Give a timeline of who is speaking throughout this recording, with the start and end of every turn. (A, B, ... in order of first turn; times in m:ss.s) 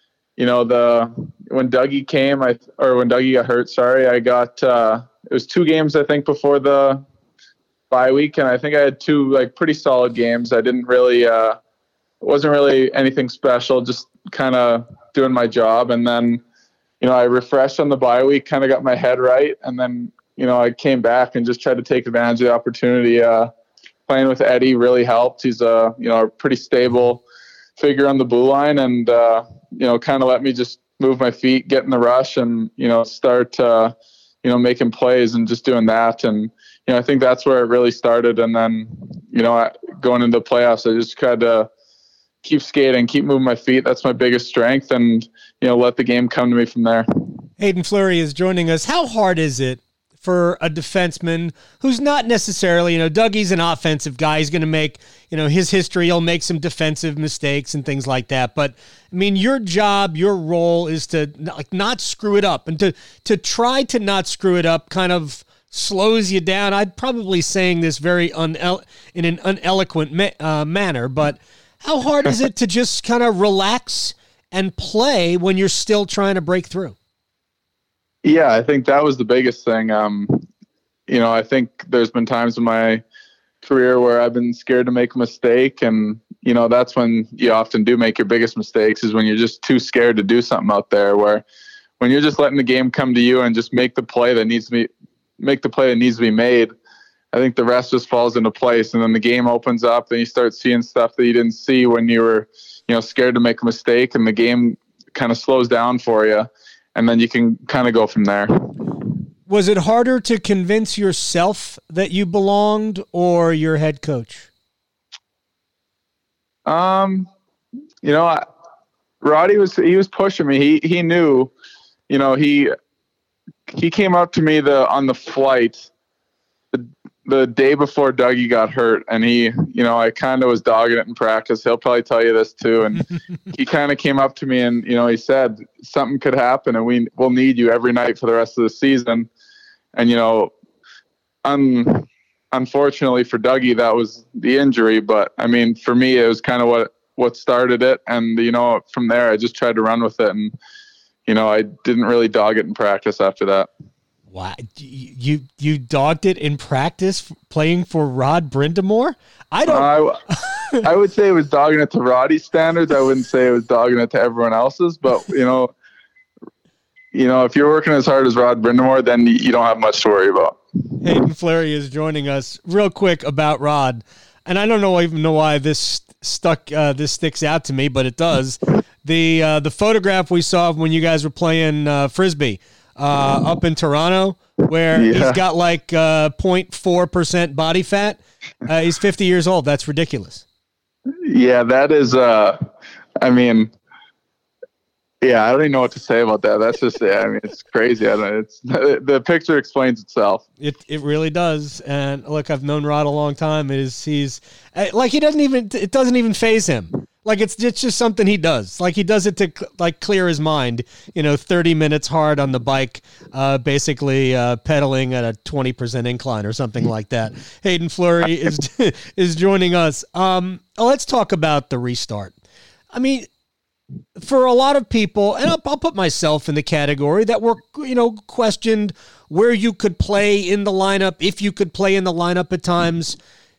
0:00.4-0:07.0 A
0:07.9-0:11.6 A
0:12.2-0:16.4 A
0:17.0-0:23.5 A
0:24.1-0:27.2 A
0:27.8-0:41.7 A
0:42.4-0:47.1 A
0:47.6-1:16.9 B
1:18.2-1:20.4 A
1:21.1-1:23.0 A
1:23.6-1:31.4 A
1:32.0-1:36.7 A
1:37.3-1:48.7 A
1:49.5-1:54.5 B
1:56.6-1:57.3 A
1:58.0-1:58.4 A
1:59.2-2:01.5 A
2:02.1-2:02.7 A
2:03.7-2:05.9 A
2:06.7-2:19.3 A
2:19.9-2:20.5 A
2:21.4-2:30.5 A
2:31.3-2:33.7 A
2:34.3-2:39.9 B
2:39.7-2:40.2 A
2:40.4-2:40.8 B
2:40.8-2:45.7 A
2:47.1-2:50.6 A
2:51.0-3:10.4 B
3:04.9-3:05.4 A
3:11.2-3:12.6 A
3:13.2-3:13.7 A
3:15.2-3:20.4 A
3:20.6-3:42.3 B
3:42.9-3:43.3 B
3:44.2-3:53.2 B